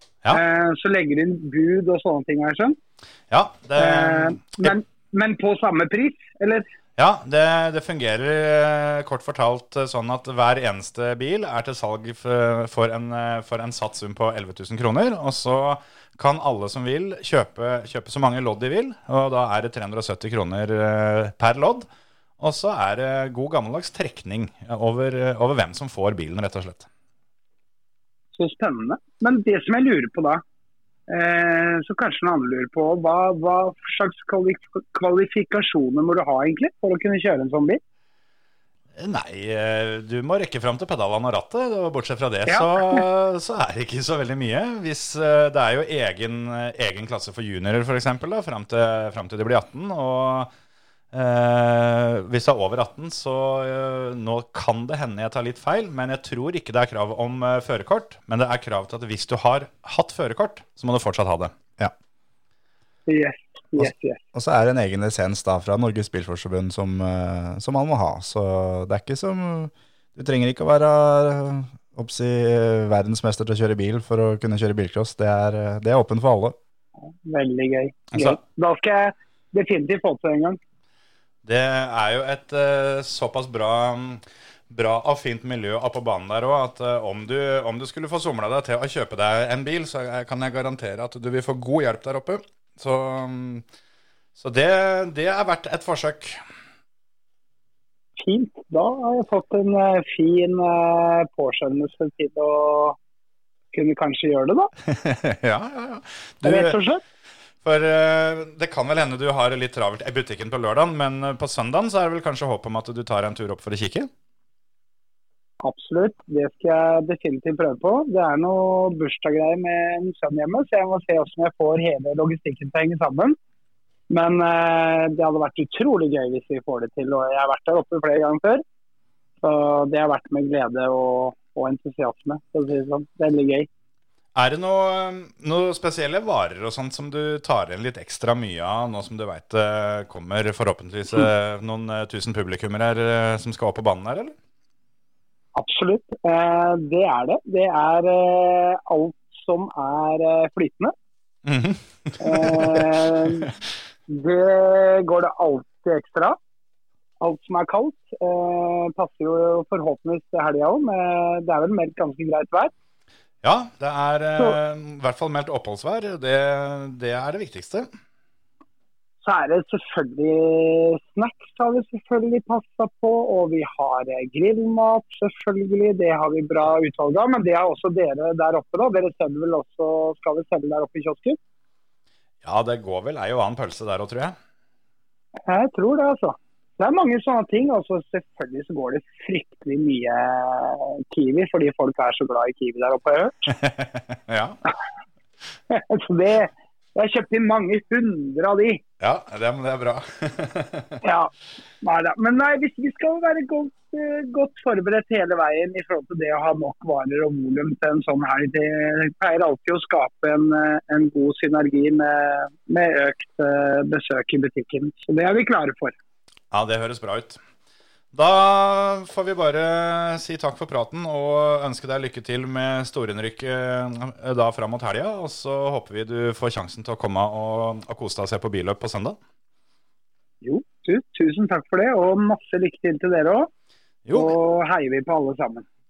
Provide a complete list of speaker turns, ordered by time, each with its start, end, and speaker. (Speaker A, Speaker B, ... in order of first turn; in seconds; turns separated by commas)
Speaker A: 0.3-2.8, Speaker B: 3.3-4.8, Speaker A: 3.8-6.7, Speaker B: 7.0-21.9, Speaker B: 22.4-26.9, Speaker A: 28.4-30.4, Speaker A: 31.1-37.8, Speaker B: 39.0-50.5, Speaker A: 42.5-43.0, Speaker B: 51.1-61.5, Speaker A: 63.1-64.2, Speaker C: 63.8-76.6, Speaker A: 77.2-80.6, Speaker B: 78.1-78.4, Speaker B: 81.5-93.7, Speaker B: 94.4-96.4, Speaker A: 98.2-103.0, Speaker A: 103.7-104.7, Speaker B: 104.9-106.8, Speaker A: 106.4-107.0, Speaker B: 107.6-114.1, Speaker A: 115.6-123.4, Speaker A: 124.1-128.6, Speaker A: 129.4-133.7, Speaker B: 134.3-144.3, Speaker A: 145.6-150.9, Speaker B: 151.5-152.9, Speaker A: 152.2-153.5, Speaker A: 154.1-156.4, Speaker A: 157.2-162.7, Speaker B: 163.4-167.9, Speaker A: 169.2-181.4, Speaker B: 182.4-184.4, Speaker A: 185.5-193.5, Speaker B: 193.5-194.6, Speaker A: 195.7-198.8, Speaker B: 199.0-201.0, Speaker A: 201.0-201.3, Speaker A: 201.8-215.9, Speaker B: 216.5-217.4, Speaker B: 218.1-229.2, Speaker A: 230.4-233.5, Speaker B: 234.1-234.4, Speaker A: 234.1-235.7